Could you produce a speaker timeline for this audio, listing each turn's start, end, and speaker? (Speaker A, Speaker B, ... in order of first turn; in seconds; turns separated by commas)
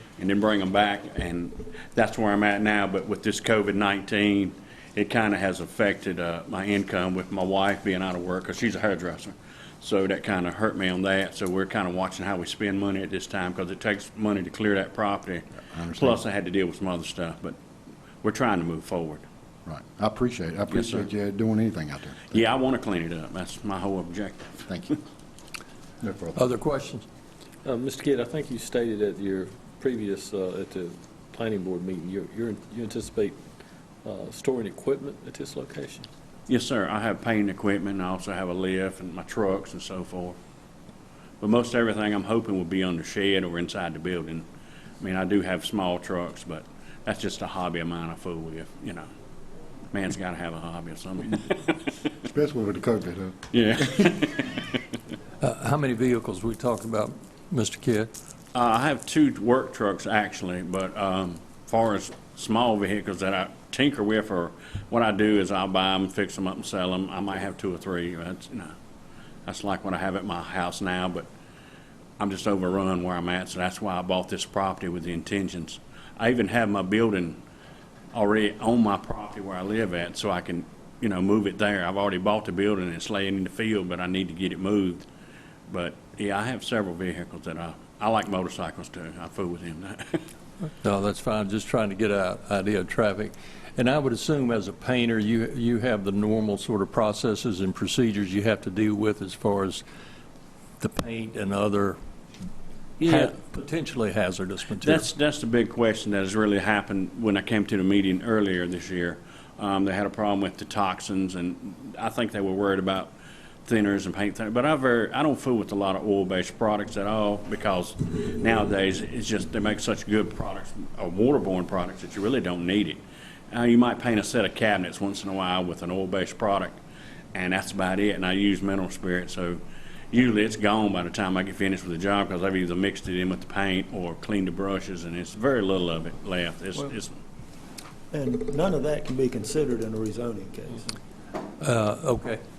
Speaker A: 0.2-17.6, Speaker B: 15.7-16.2, Speaker A: 18.2-19.2, Speaker B: 19.7-22.4, Speaker A: 20.7-21.1, Speaker A: 22.3-24.9, Speaker B: 26.0-26.5, Speaker C: 26.4-27.1, Speaker D: 27.6-33.4, Speaker D: 34.0-36.1, Speaker A: 36.5-40.4, Speaker A: 41.4-44.5, Speaker A: 45.0-49.1, Speaker A: 49.9-52.0, Speaker B: 52.3-53.4, Speaker A: 53.5-54.8, Speaker C: 55.4-58.1, Speaker A: 58.5-68.8, Speaker A: 69.5-71.3, Speaker A: 72.2-77.4, Speaker A: 78.1-85.1, Speaker A: 85.7-90.2, Speaker C: 90.8-99.8, Speaker C: 100.8-102.0, Speaker A: 103.0-103.3, Speaker C: 103.0-105.1, Speaker A: 104.8-113.1, Speaker A: 113.7-126.8, Speaker A: 127.3-137.2, Speaker E: 138.9-140.9, Speaker C: 141.6-142.4